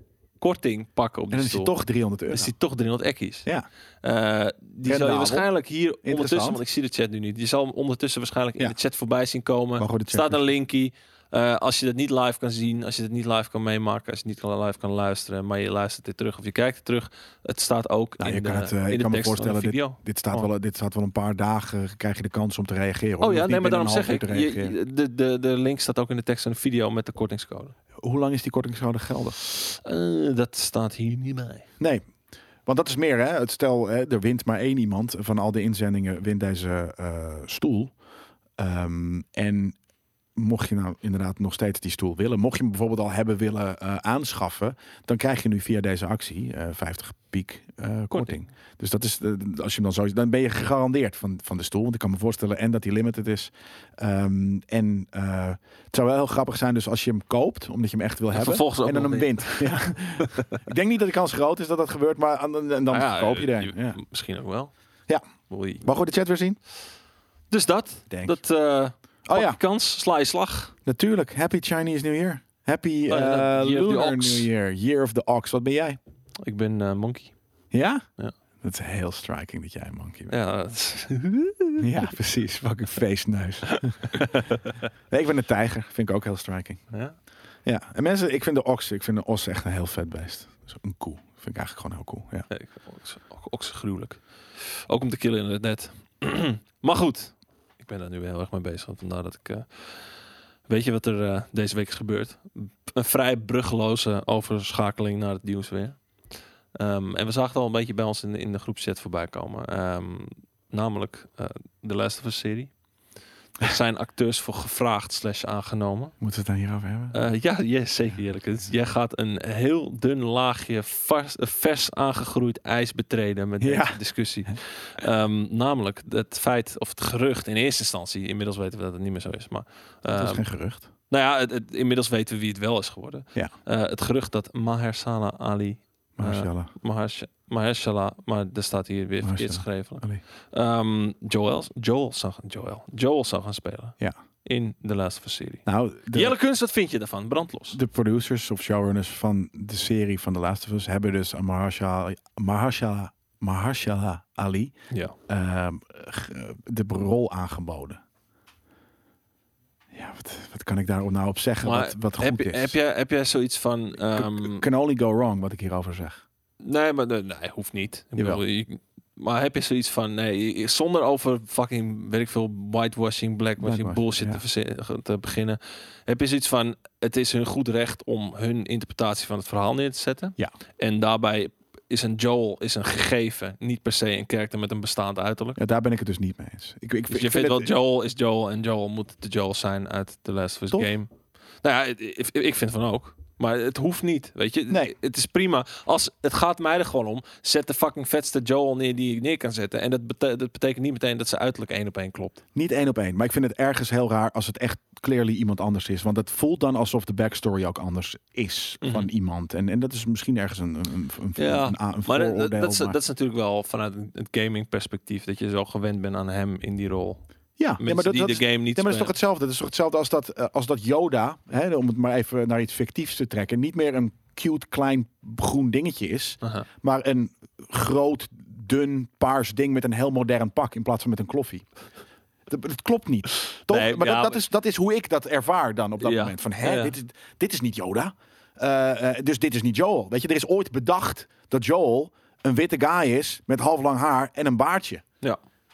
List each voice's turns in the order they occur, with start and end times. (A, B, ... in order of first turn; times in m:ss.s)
0:00.4-0:01.7 A
0:01.3-0:02.5 B
0:02.3-0:03.5 A
0:04.0-0:20.5 A
0:04.9-0:05.5 B
0:06.0-0:06.6 B
0:09.8-0:10.4 B
0:18.2-0:24.8 B
0:23.2-0:27.7 A
0:28.0-0:29.4 B
0:29.4-0:31.7 A
0:31.8-0:32.0 B
0:32.7-0:37.9 B
0:38.6-0:39.8 B
0:40.4-1:04.0 B
0:58.3-1:00.6 A
1:02.9-1:04.7 A
1:05.5-1:05.9 A
1:05.8-1:06.6 B
1:07.5-1:10.7 A
1:08.1-1:08.4 B
1:09.3-1:09.6 B
1:10.8-1:16.0 B
1:13.1-1:14.5 A
1:16.4-1:17.4 A
1:17.7-1:18.0 B
1:18.6-1:20.3 B
1:20.3-1:22.1 A
1:21.8-1:24.4 B
1:23.7-1:24.8 A
1:25.1-1:26.8 B
1:27.6-1:32.5 B
1:32.5-1:40.0 A
1:40.7-1:46.0 A
1:46.8-1:52.7 A
1:53.6-1:56.2 A
1:56.2-1:57.2 B
1:57.1-2:10.4 A
2:03.6-2:04.5 B
2:10.2-2:10.9 B
2:11.1-2:27.8 A
2:16.2-2:16.7 B
2:19.2-2:20.2 B
2:25.7-2:26.4 B
2:27.7-2:34.7 B
2:35.3-2:38.0 B
2:39.9-2:42.7 B
2:41.6-2:44.7 A
2:44.1-2:46.2 B
2:46.6-3:05.6 A
2:48.2-2:48.4 B
2:53.6-2:54.4 B
3:05.6-3:07.7 B
3:07.1-3:11.1 A
3:11.6-3:22.4 A
3:22.6-3:33.0 B
3:28.8-3:29.1 A
3:31.4-3:37.2 A
3:37.6-3:51.7 B
3:37.8-3:39.1 A
3:52.5-4:05.0 B
3:53.5-3:54.4 A
3:56.0-3:56.9 A